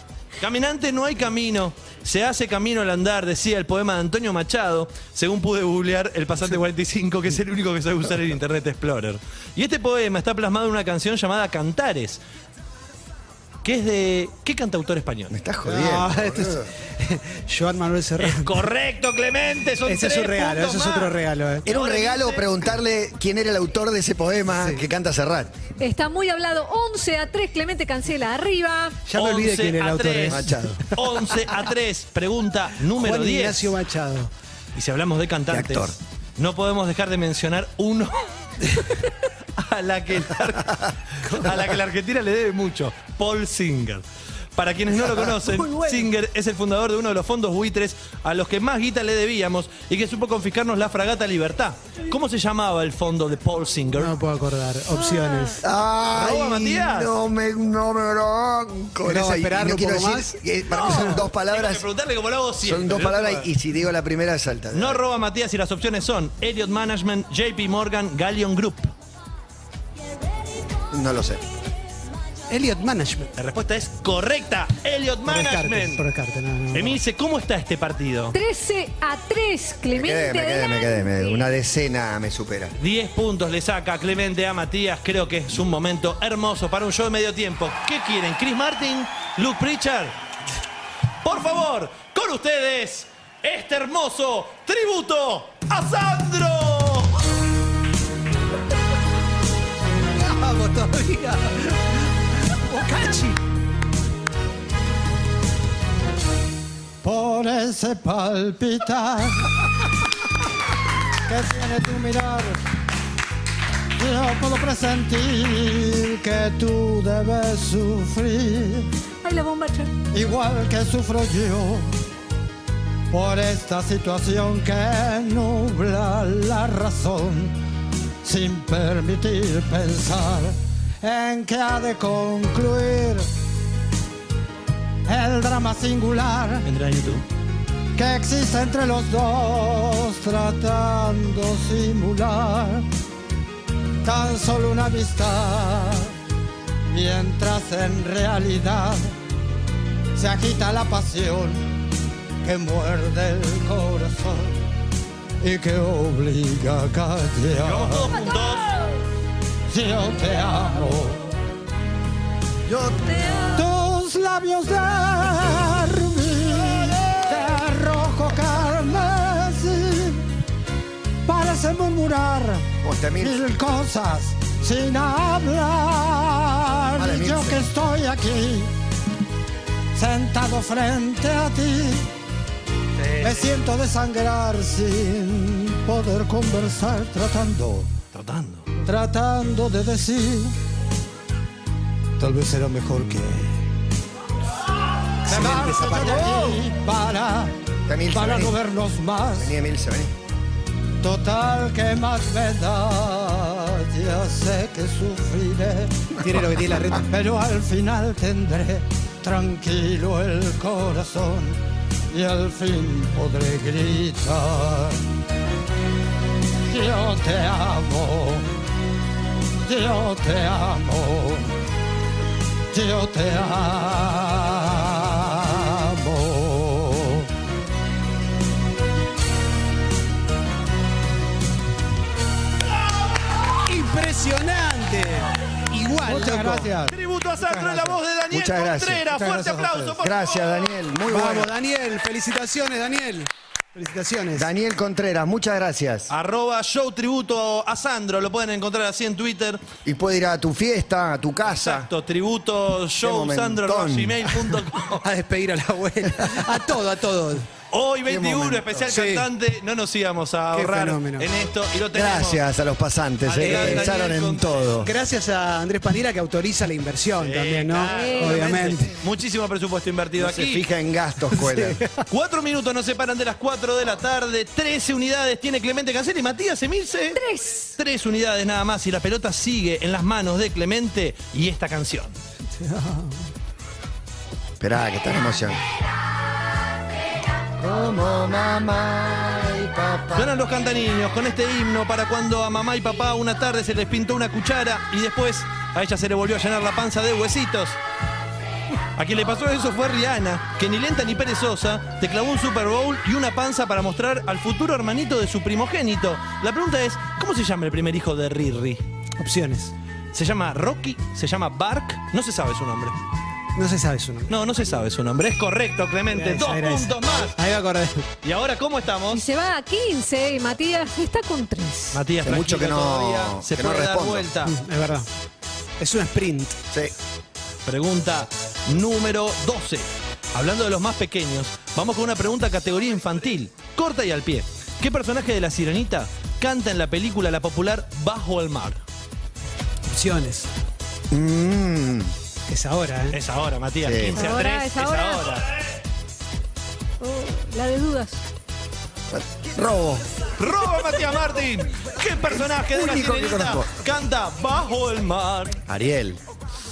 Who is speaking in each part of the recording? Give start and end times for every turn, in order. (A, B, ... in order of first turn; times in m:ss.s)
0:00.4-0:12.2 A
0:13.6-0:15.3 A
0:15.3-0:16.7 B
0:15.6-0:18.6 C
0:18.2-0:22.5 A
0:19.8-0:21.6 C
0:21.6-0:25.5 B
0:24.5-0:24.8 C
0:25.8-0:29.0 D
0:29.0-0:30.9 C
0:29.1-0:33.7 A
0:30.3-0:30.8 B
0:32.9-0:34.3 C
0:34.7-0:44.0 A
0:35.5-0:36.0 B
0:41.2-0:41.5 C
0:44.6-0:54.1 A
0:45.7-0:46.0 C
0:54.0-0:55.6 C
0:55.0-0:55.6 D
0:55.6-1:01.8 B
0:56.1-0:57.1 A
0:59.0-1:00.4 C
1:00.7-1:03.5 A
1:02.6-1:05.0 B
1:04.7-1:08.9 A
1:10.9-1:11.4 B
1:12.5-1:13.3 C
1:13.4-1:16.0 A
1:15.2-1:17.0 C
1:16.7-1:18.4 A
1:18.3-1:21.4 D
1:19.9-1:22.7 B
1:22.8-1:30.2 A
1:31.2-1:37.2 A
1:40.2-1:43.4 C
1:47.0-1:49.5 E
1:51.3-1:52.6 E
1:54.0-1:58.9 E
1:59.2-1:59.9 D
2:00.1-2:01.9 E
2:03.1-2:07.5 E
2:08.2-2:13.3 E
2:15.0-2:16.7 E
2:16.6-2:17.2 A
2:18.0-2:22.8 E
2:24.0-2:26.1 E
2:26.9-2:29.1 E
2:30.1-2:31.7 E
2:32.4-2:34.6 E
2:35.4-2:38.1 E
2:37.6-2:38.7 A
2:39.7-2:41.3 E
2:42.7-2:43.2 B
2:43.2-2:43.6 D
2:43.5-2:50.2 E
2:51.2-2:52.7 E
2:52.8-2:53.4 B
2:53.2-2:58.7 E
2:57.0-2:57.6 B
2:59.9-3:02.1 E
3:03.0-3:03.6 A
3:03.2-3:07.9 E
3:08.1-3:08.7 A
3:08.8-3:10.5 E
3:12.2-3:13.6 E
3:15.3-3:16.6 C
3:15.3-3:17.5 E
3:17.9-3:18.5 B
3:18.1-3:19.5 E
3:19.4-3:20.1 B
3:21.0-3:31.6 E
3:26.2-3:27.0 C
3:32.1-3:35.0 E
3:36.6-3:38.5 E
3:39.6-3:41.5 E
3:42.7-3:47.3 E
3:53.6-3:56.7 C
3:56.0-3:58.0 E
3:56.9-4:00.7 A
3:58.3-3:59.1 B
3:59.1-4:00.0 E
4:00.0-4:01.5 B
4:01.1-4:04.5 C
4:04.3-4:06.1 B
4:06.1-4:09.6 A
4:09.8-4:11.9 B
4:11.4-4:15.0 A
4:13.0-4:14.4 B
4:15.0-4:17.5 C
4:17.7-4:22.4 A
4:18.0-4:18.8 B
4:18.9-4:19.3 C
4:20.5-4:21.3 C
4:21.9-4:24.9 B
4:23.2-4:24.8 A
4:23.4-4:24.0 C
4:24.8-4:28.9 C
4:27.2-4:30.6 A
4:27.9-4:28.6 D
4:30.2-4:31.8 B
4:31.3-4:32.0 C
4:32.1-4:37.2 A
4:37.1-4:37.7 D
4:37.7-4:42.1 A
4:42.5-4:43.3 C
4:44.6-4:45.6 B
4:47.6-4:50.3 B
4:50.1-4:57.8 A
4:59.0-5:08.8 A
5:09.2-5:09.7 C
5:10.1-5:13.0 A
5:13.6-5:14.3 C
5:14.3-5:17.4 A
5:16.1-5:18.0 C
5:18.2-5:19.2 A
5:19.1-5:22.0 D
5:21.9-5:24.5 A
5:22.2-5:24.3 B
5:24.4-5:25.1 C
5:25.8-5:26.6 C
5:27.6-5:38.8 A
5:39.8-5:40.5 C
5:41.1-5:42.1 B
5:42.5-5:43.2 C
5:43.1-5:45.5 A
5:43.8-5:44.2 B
5:44.1-5:45.3 D
5:47.0-5:48.2 D
5:49.1-5:50.1 B
5:50.4-5:55.6 A
5:52.3-5:53.7 B
5:55.7-5:56.2 B